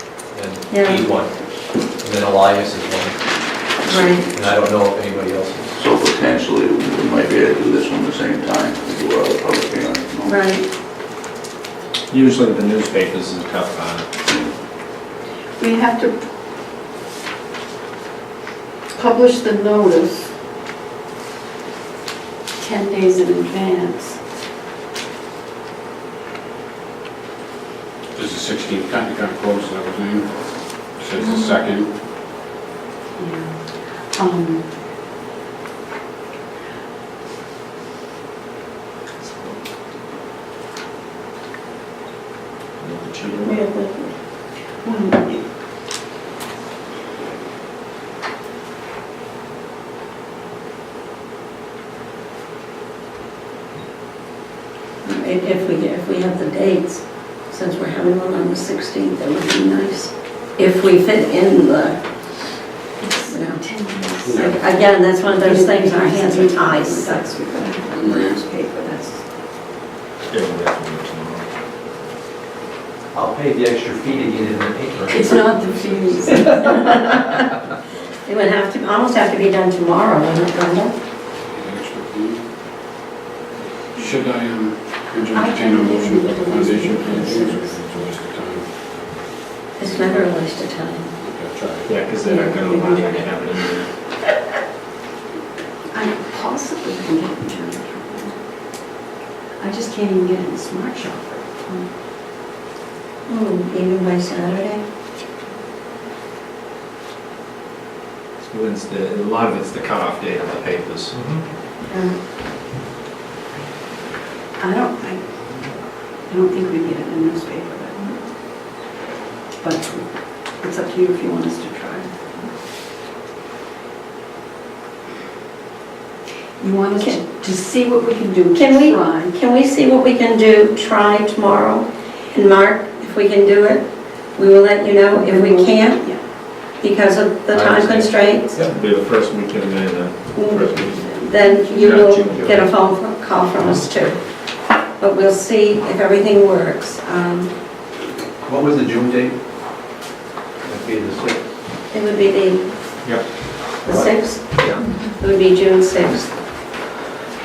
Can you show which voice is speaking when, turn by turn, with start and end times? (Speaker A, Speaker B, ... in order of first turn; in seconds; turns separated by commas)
Speaker A: 0.3-1.3, Speaker B: 0.7-1.1, Speaker A: 2.0-3.2, Speaker B: 3.9-4.3, Speaker A: 4.2-5.7, Speaker C: 5.8-10.4, Speaker B: 10.2-10.6, Speaker D: 12.1-14.1, Speaker E: 15.6-16.2, Speaker E: 19.0-20.3, Speaker E: 22.6-24.2, Speaker F: 28.1-31.9, Speaker E: 31.2-31.6, Speaker E: 33.2-34.7, Speaker E: 39.2-39.6, Speaker D: 42.8-43.6, Speaker B: 43.4-44.1, Speaker E: 44.8-45.4, Speaker B: 55.0-62.0, Speaker E: 63.0-69.3, Speaker B: 63.3-63.6, Speaker F: 64.2-64.6, Speaker B: 64.3-67.4, Speaker D: 70.3-71.5, Speaker A: 73.1-75.4, Speaker E: 75.1-77.2, Speaker A: 76.4-76.9, Speaker B: 76.7-77.2, Speaker B: 78.2-81.0, Speaker F: 81.5-82.5, Speaker F: 84.0-88.7, Speaker E: 85.3-87.8, Speaker B: 89.8-91.1, Speaker F: 91.2-92.1, Speaker D: 91.8-93.9, Speaker E: 92.2-93.2, Speaker E: 95.9-98.4, Speaker E: 99.6-101.9, Speaker B: 103.3-104.8, Speaker D: 108.4-111.2, Speaker A: 111.1-111.4, Speaker B: 111.9-112.2, Speaker E: 114.6-118.2, Speaker E: 119.6-122.1, Speaker E: 126.6-129.3, Speaker B: 128.6-136.1, Speaker E: 135.1-136.2, Speaker B: 136.6-138.5, Speaker A: 137.5-138.7, Speaker D: 138.6-142.7, Speaker B: 140.3-144.2, Speaker E: 141.4-141.8, Speaker B: 145.0-147.5, Speaker A: 148.4-149.4, Speaker A: 150.6-151.4, Speaker B: 151.9-152.7, Speaker B: 153.8-156.3